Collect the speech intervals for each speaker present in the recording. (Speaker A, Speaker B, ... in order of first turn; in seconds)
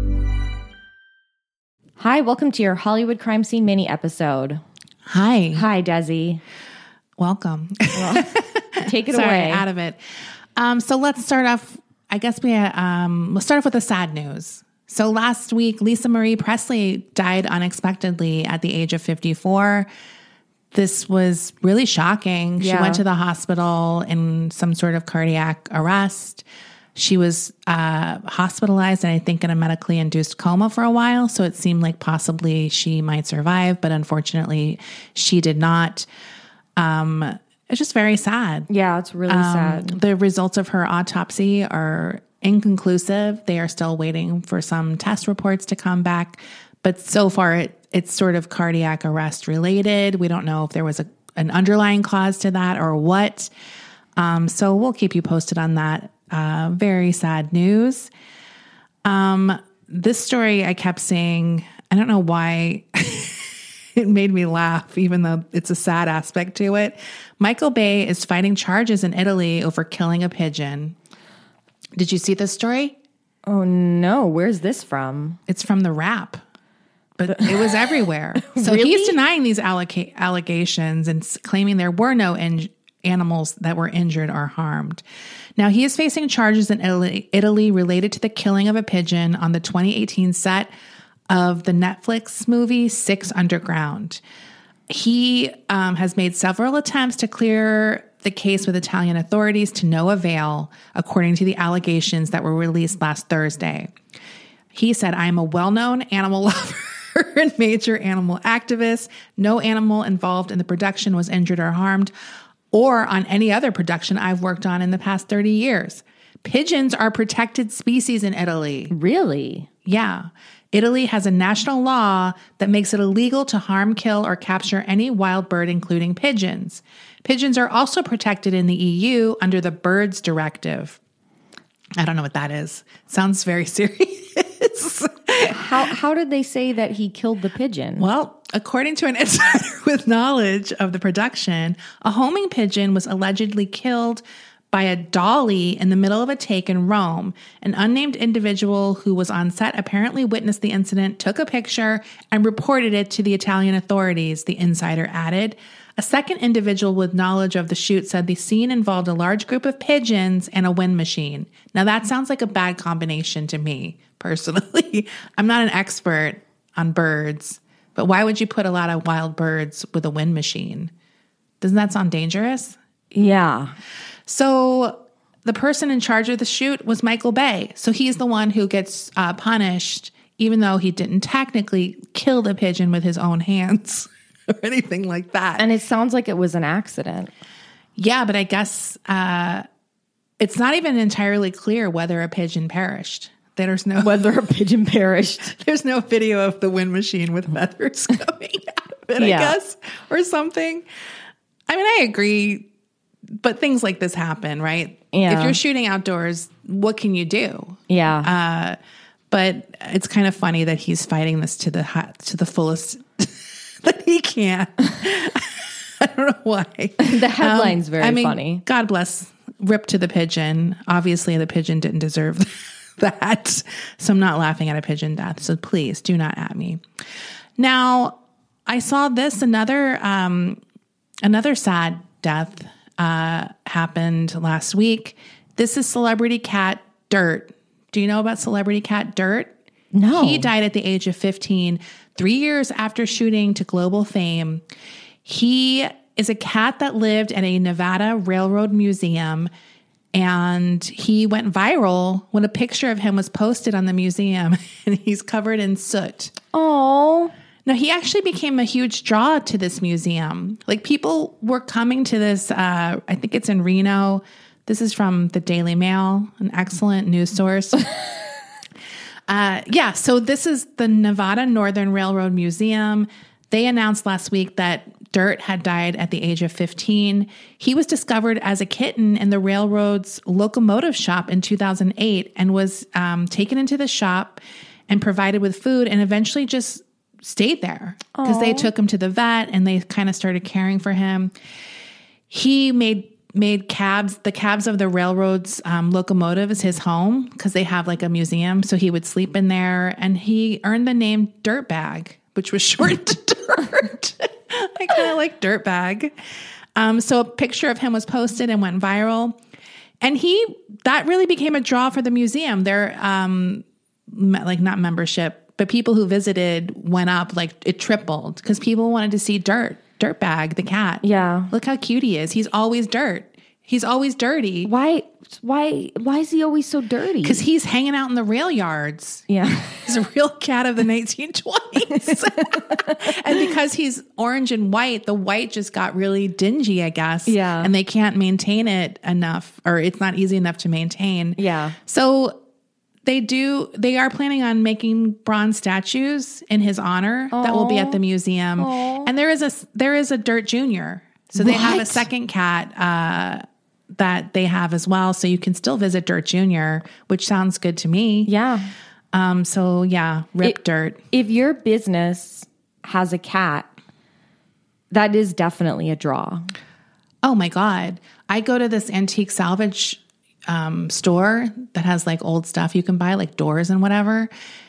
Speaker A: 2.0-4.6, 5.5-6.4, 7.9-9.6, 22.6-23.0, 38.7-40.0, 73.5-75.4, 78.4-79.2, 118.9-119.7, 135.5-138.1, 173.1-173.8, 185.6-187.3, 194.0-195.5, 199.2-199.6, 205.1-205.6, 207.9-208.3, 217.0-218.6, 239.9-240.5, 256.5-257.3, 288.1-288.7, 321.0-321.5, 324.6-327.4, 329.3-329.8, 331.9-333.1, 337.3-337.7, 341.4-341.8, 347.3-348.0, 348.6-349.1, 351.4-352.0, 358.2-358.7, 361.1-363.7, 364.9-366.5
Speaker B: 5.0-5.7, 7.2-10.0, 10.6-19.9, 20.7-26.4, 26.9-36.1, 36.8-38.7, 39.3-53.5, 54.1-58.1, 59.0-71.0, 72.0-73.0, 75.5-76.4, 77.2-85.0, 85.6-90.7, 91.3-94.2, 94.9-103.9, 104.7-112.1, 112.7-118.9, 119.8-131.0, 132.0-135.6, 138.0-170.9, 171.6-172.8, 174.2-185.6, 188.0-189.6, 190.4-194.3, 195.4-200.8, 201.7-202.7, 203.4-208.8, 209.3-226.8, 227.6-230.6, 231.2-239.5, 240.1-244.6, 245.2-249.5, 250.1-256.3, 257.6-267.9, 269.3-291.3, 292.3-306.1, 306.8-309.4, 310.0-324.7, 327.2-329.3, 329.8-342.4, 343.0-358.3, 359.1-361.0, 367.2-374.3